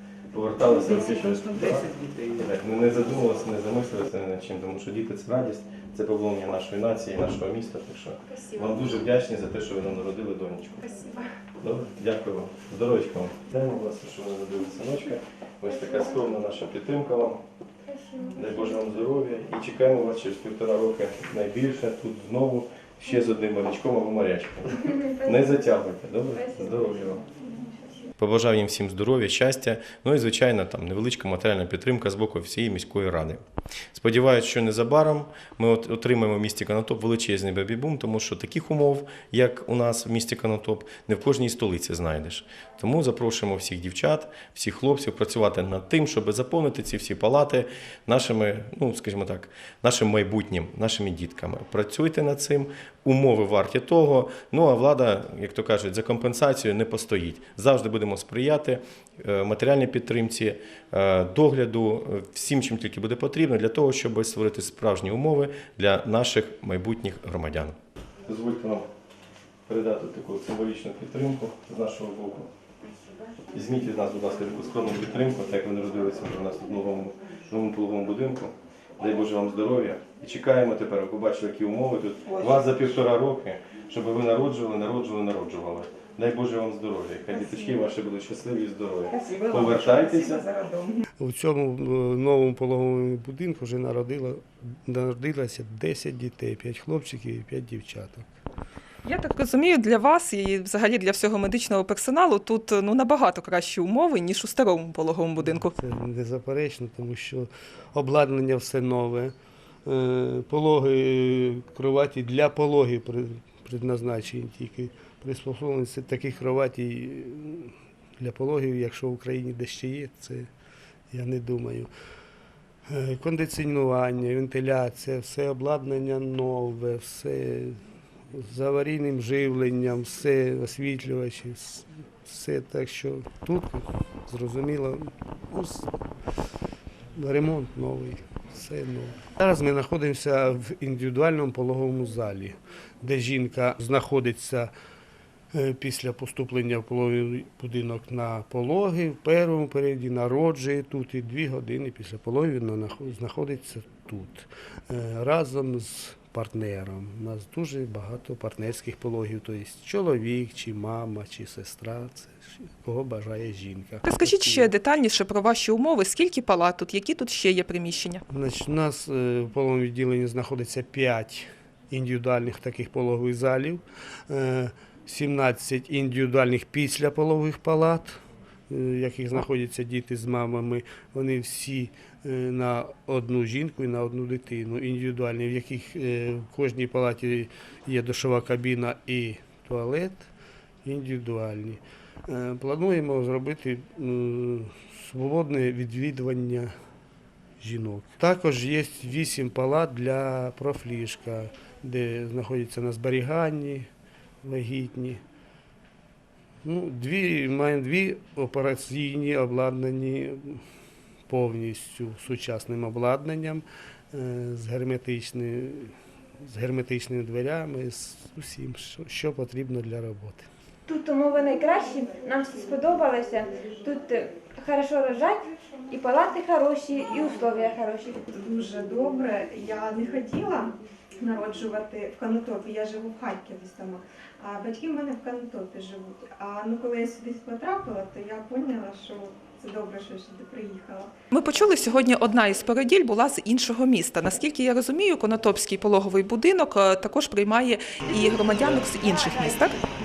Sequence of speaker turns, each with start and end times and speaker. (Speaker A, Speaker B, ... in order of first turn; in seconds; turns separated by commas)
Speaker A: 0.3-11.0, Speaker B: 10.9-11.2, Speaker A: 11.6-17.4, Speaker C: 15.7-16.1, Speaker C: 17.9-18.8, Speaker A: 18.3-27.2, Speaker C: 25.0-25.8, Speaker C: 26.3-26.9, Speaker A: 28.2-33.4, Speaker A: 33.9-68.8, Speaker A: 69.7-72.5, Speaker A: 73.5-90.4, Speaker D: 82.3-82.6, Speaker D: 87.3-87.7, Speaker D: 89.1-91.0, Speaker E: 91.2-98.4, Speaker D: 99.0-105.8, Speaker E: 105.4-109.3, Speaker E: 109.8-120.5, Speaker E: 121.1-121.9, Speaker E: 122.9-127.8, Speaker E: 128.3-135.9, Speaker E: 137.1-144.7, Speaker E: 145.5-164.7, Speaker D: 164.0-168.2, Speaker E: 168.3-190.3, Speaker E: 190.8-196.7, Speaker E: 197.6-203.9, Speaker E: 204.4-205.2, Speaker E: 206.6-210.6, Speaker E: 211.3-220.5, Speaker C: 220.9-228.3, Speaker B: 228.2-241.1, Speaker D: 241.3-249.8, Speaker C: 248.1-249.7